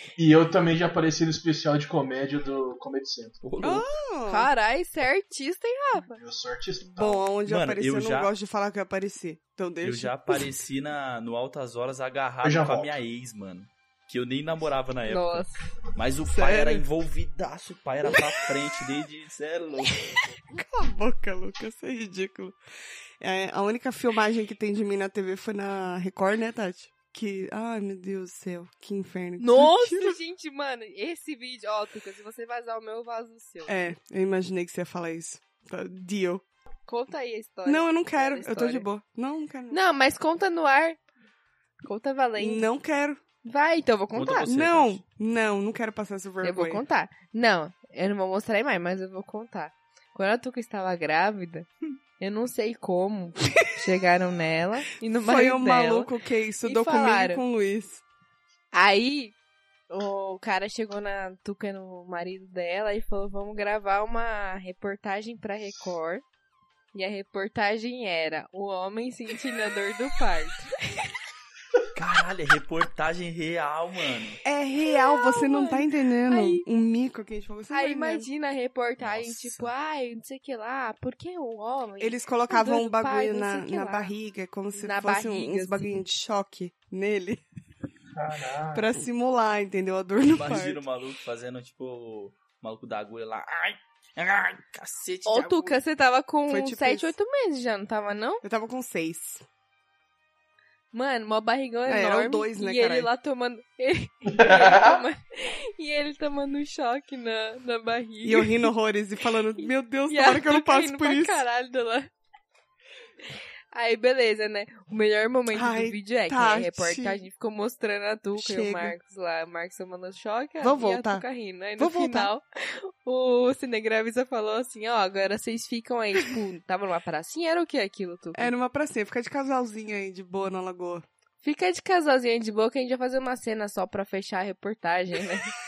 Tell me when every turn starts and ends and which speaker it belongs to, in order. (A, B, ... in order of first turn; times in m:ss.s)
0:00.2-0:03.4 A
0:03.4-0:03.9 B
0:03.6-0:04.5 C
0:04.3-0:06.2 D
0:06.2-0:07.2 A
0:07.0-0:10.4 C
0:07.5-0:08.3 B
0:09.8-0:20.2 B
0:12.4-0:13.0 A
0:15.1-0:15.6 D
0:16.3-0:16.8 C
0:20.5-0:22.6 C
0:23.2-0:30.2 C
0:29.4-0:33.9 D
0:33.7-0:36.4 C
0:36.9-0:38.9 D
0:37.7-0:39.8 C
0:39.7-0:41.0 D
0:41.8-0:42.7 D
0:42.4-0:43.2 C
0:43.4-0:44.5 D
0:44.1-0:45.0 B
0:44.5-0:46.8 C
0:46.4-0:51.7 D
0:52.2-0:56.1 D
0:55.2-0:58.0 C
0:56.6-0:57.4 D
0:58.7-0:59.3 D
0:59.9-1:06.2 D
1:06.9-1:11.1 D
1:11.9-1:14.4 B
1:14.4-1:18.3 C
1:14.8-1:16.6 D
1:17.7-1:24.1 D
1:19.0-1:19.7 B
1:22.0-1:27.4 C
1:24.8-1:25.9 D
1:28.1-1:28.9 A
1:28.7-1:30.8 C
1:30.3-1:35.8 B
1:35.2-1:38.4 D
1:36.5-1:37.1 C
1:38.4-1:39.4 C
1:40.9-1:48.6 D
1:41.9-1:43.1 C
1:44.3-1:45.0 A
1:48.2-1:51.4 C
1:50.1-1:52.1 D
1:53.7-2:08.5 D
1:55.5-1:57.2 C
1:58.4-1:58.9 C
2:00.6-2:01.3 C
2:01.8-2:02.3 C
2:08.3-2:11.0 C
2:11.4-2:15.5 D